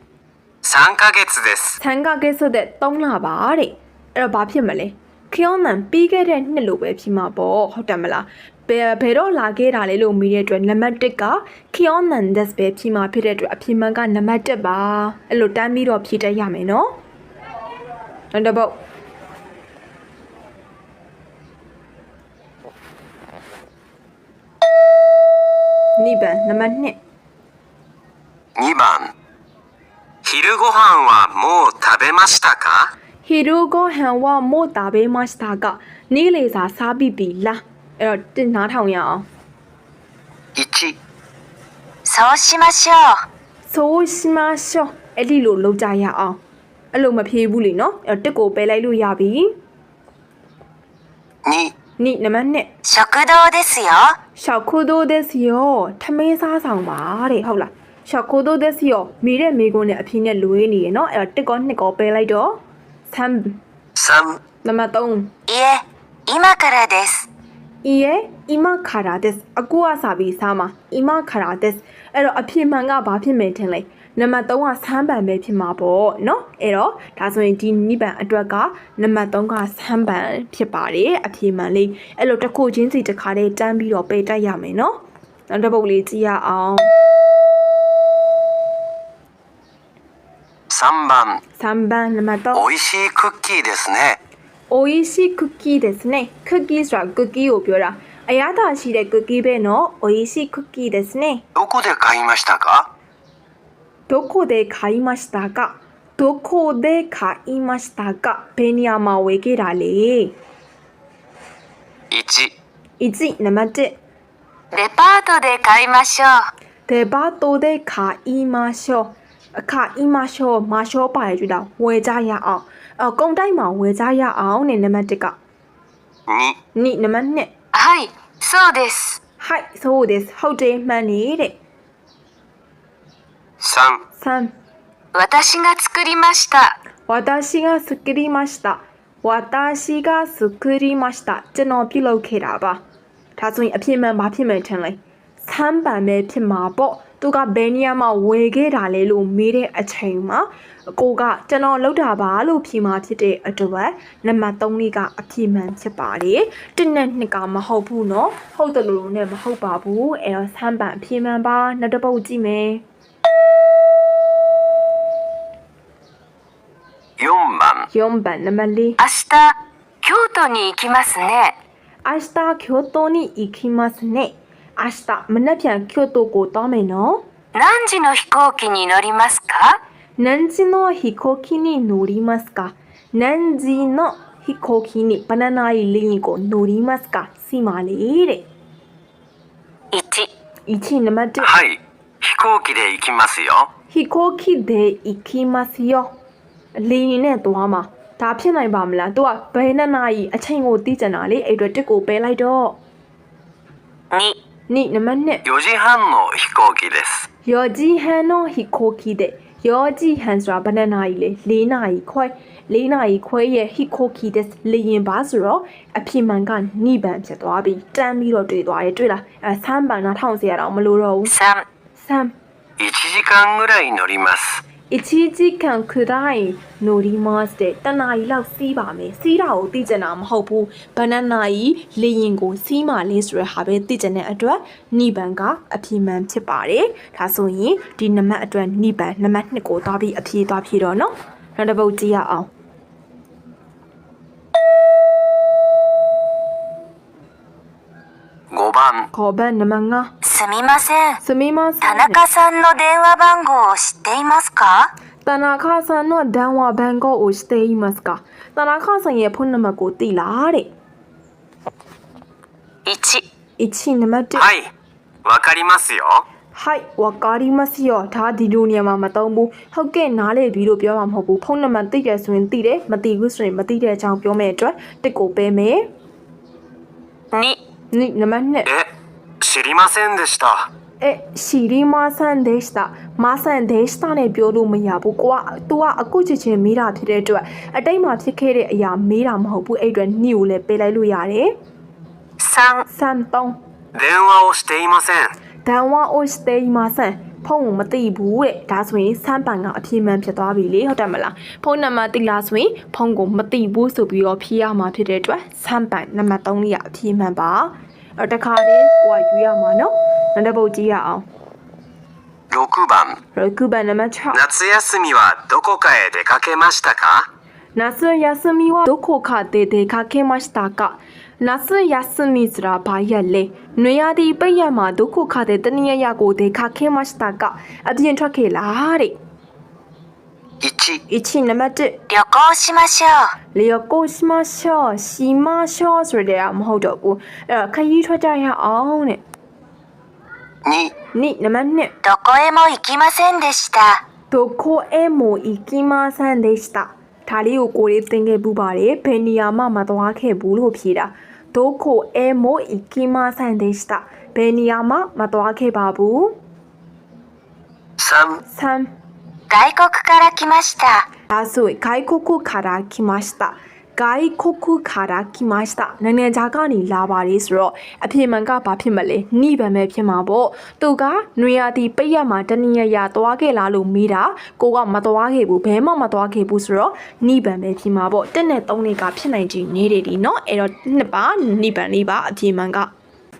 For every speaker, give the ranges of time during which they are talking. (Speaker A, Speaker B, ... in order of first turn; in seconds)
Speaker A: 0.6-1.8, 28.6-29.1, 30.2-32.9, 40.5-40.9, 51.4-51.7, 64.0-64.4, 90.7-91.4, 92.5-94.2, 101.5-102.9, 112.1-112.5, 126.3-126.6, 133.6-134.0, 167.2-167.9, 191.4-193.7, 205.4-207.3, 222.8-224.6, 248.5-249.1, 264.3-264.7, 265.2-266.2, 279.4-280.7, 293.9-295.3, 312.5-313.2, 314.3-317.3, 330.6-331.0, 340.6-340.9, 358.0-358.4
Speaker B: 1.8-16.9, 18.3-18.8, 26.0-27.0, 33.2-39.2, 43.7-46.4, 46.9-49.5, 52.0-52.7, 54.4-63.6, 64.6-65.3, 67.8-86.9, 91.6-92.6, 94.7-101.4, 104.1-110.3, 113.0-114.0, 116.9-125.3, 126.7-127.5, 129.4-131.6, 134.2-134.5, 137.1-142.8, 143.4-162.8, 167.9-169.0, 172.0-177.2, 180.2-188.4, 190.7-191.5, 193.9-196.1, 196.8-202.8, 204.7-205.4, 207.4-221.3, 222.0-222.3, 224.9-242.5, 249.1-250.1, 251.2-252.2, 255.2-260.7, 263.6-264.5, 266.5-275.9, 277.9-278.7, 281.0-291.5, 292.9-293.6, 295.6-311.2, 313.3-314.4, 317.8-329.2, 331.1-332.0, 333.5-339.2, 341.1-341.9, 344.3-356.3, 358.5-358.9, 361.3-382.9
Speaker C: 42.0-43.2, 52.9-54.1, 65.5-67.3, 114.7-116.5, 127.7-129.2, 135.1-136.7, 169.0-171.5, 177.5-179.8, 189.9-190.3, 204.1-204.4, 221.3-221.6, 250.2-251.2, 251.8-254.9, 262.9-263.2, 292.4-292.8, 332.1-333.3, 342.0-344.0, 359.5-361.1